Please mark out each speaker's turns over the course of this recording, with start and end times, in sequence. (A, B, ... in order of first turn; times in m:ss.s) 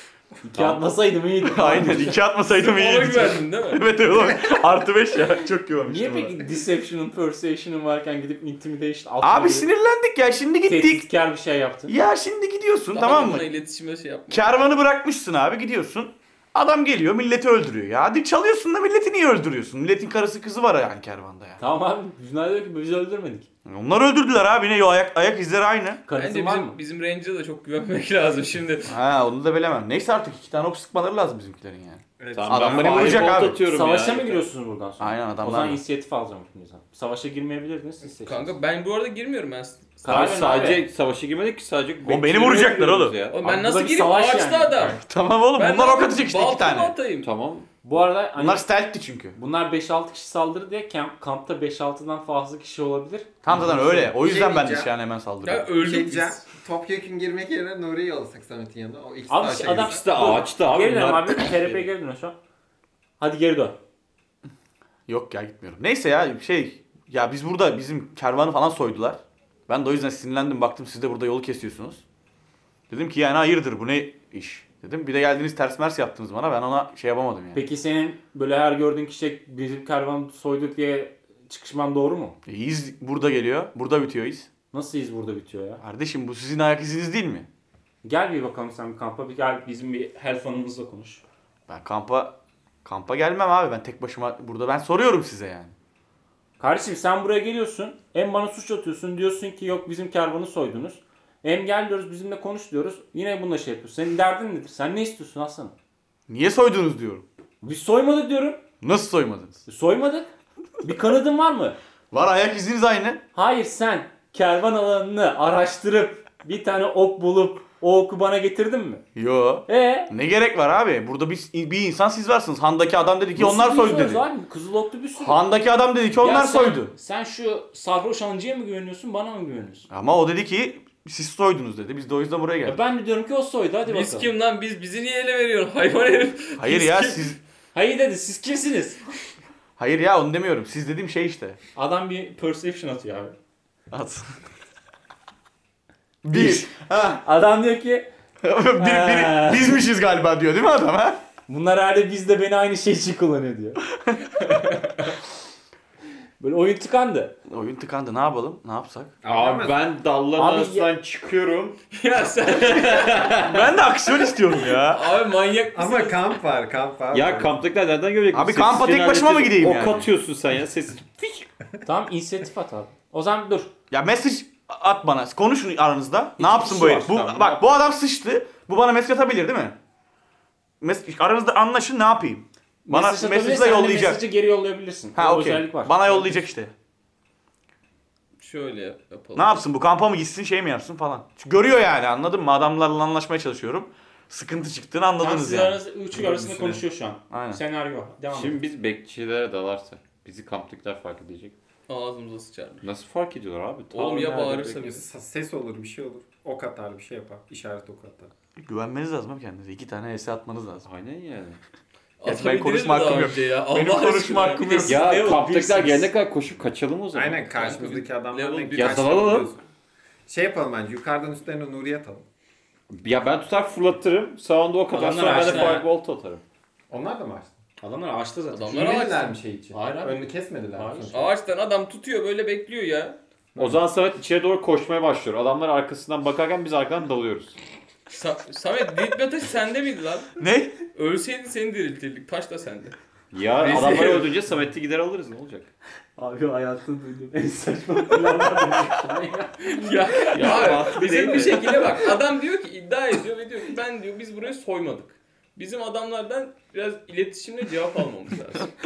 0:00.4-0:02.2 A
0:00.5-0:00.9 B
0:01.4-0:06.4 B
0:02.6-0:03.8 C
0:05.8-0:09.7 A
0:09.2-0:11.1 B
0:10.6-0:11.9 A
0:11.9-0:13.5 B
0:12.9-0:14.5 C
0:14.3-0:21.6 B
0:21.6-0:23.5 A
0:23.6-0:26.0 B
0:26.1-0:26.8 A
0:26.2-0:28.9 C
0:28.8-0:33.6 B
0:32.2-0:33.5 D
0:32.3-0:34.4 E
0:33.6-0:38.5 A
0:35.0-0:35.8 B
0:38.2-0:40.4 C
0:40.0-0:40.8 A
0:40.0-0:43.5 E
0:42.0-0:43.2 B
0:43.3-0:45.0 C
0:43.4-0:44.9 A
0:44.9-0:46.9 B
0:45.5-0:47.3 C
0:47.2-0:47.7 E
0:47.8-0:48.7 A
0:48.4-0:49.4 B
0:49.3-0:53.8 A
0:53.4-0:55.7 B
0:53.8-0:54.9 D
0:55.4-0:56.4 C
0:55.8-1:00.4 D
0:59.3-1:02.4 A
0:59.8-1:01.9 E
1:03.2-1:03.8 A
1:05.1-1:12.0 B
1:12.9-1:17.6 B
1:17.5-1:22.4 A
1:22.4-1:24.5 B
1:24.7-1:25.8 A
1:25.8-1:27.5 B
1:28.0-1:31.2 A
1:31.7-1:35.7 B
1:36.6-1:45.8 A
1:46.3-1:47.2 B
1:47.6-1:48.6 A
1:48.8-1:49.6 B
1:49.6-1:50.3 A
1:50.8-1:51.8 A
1:52.1-1:53.2 B
1:53.3-1:59.0 A
1:59.1-2:04.2 B
1:59.7-2:00.1 A
2:03.4-2:05.4 A
2:05.2-2:06.9 B
2:06.2-2:09.9 A
2:09.9-2:12.8 B
2:12.6-2:14.3 A
2:13.8-2:17.3 C
2:16.6-2:17.4 B
2:17.7-2:19.0 A
2:19.8-2:21.6 B
2:21.8-2:23.4 A
2:23.9-2:24.3 B
2:26.2-2:27.2 B
2:26.3-2:28.1 A
2:28.4-2:31.2 B
2:28.8-2:29.8 A
2:31.5-2:33.8 A
2:34.5-2:35.0 A
2:36.4-2:37.4 A
2:37.5-2:39.1 B
2:39.2-2:39.9 D
2:39.2-2:41.8 E
2:40.3-2:40.9 A
2:41.9-2:43.4 C
2:42.5-2:43.6 E
2:43.4-2:45.2 B
2:44.3-2:46.4 C
2:45.7-2:47.6 D
2:47.1-2:51.5 E
2:48.3-2:50.1 B
2:51.8-2:53.7 A
2:53.9-2:59.8 B
2:56.4-2:57.2 A
2:56.8-2:57.6 E
3:00.8-3:04.2 B
3:02.8-3:06.4 A
3:05.2-3:06.7 B
3:08.4-3:09.6 C
3:09.4-3:15.8 B
3:15.2-3:18.6 A
3:16.1-3:16.8 D
3:17.3-3:17.6 B
3:18.3-3:21.6 E
3:21.9-3:22.8 C
3:22.8-3:25.0 E
3:23.9-3:24.9 C
3:24.6-3:28.3 D
3:28.6-3:30.8 B
3:30.8-3:31.6 E
3:32.2-3:34.8 C
3:32.2-3:35.0 B
3:34.5-3:36.1 A
3:34.8-3:37.4 E
3:37.1-3:39.6 D
3:37.5-3:39.3 C
3:38.7-3:39.5 E
3:40.3-3:42.2 D
3:42.9-3:46.4 E
3:44.9-3:45.9 A
3:46.9-3:47.6 D
3:47.8-3:49.0 A
3:48.5-3:49.4 C
3:48.7-3:51.3 D
3:49.7-3:51.2 A
3:51.1-3:53.2 C
3:53.5-3:53.8 D
3:53.6-3:57.6 E
3:58.1-4:00.3 C
4:00.4-4:00.8 B
4:00.9-4:02.9 C
4:03.3-4:05.7 E
4:03.6-4:04.3 C
4:03.6-4:04.3 A
4:06.2-4:10.8 A
4:09.6-4:18.7 C
4:10.3-4:11.8 E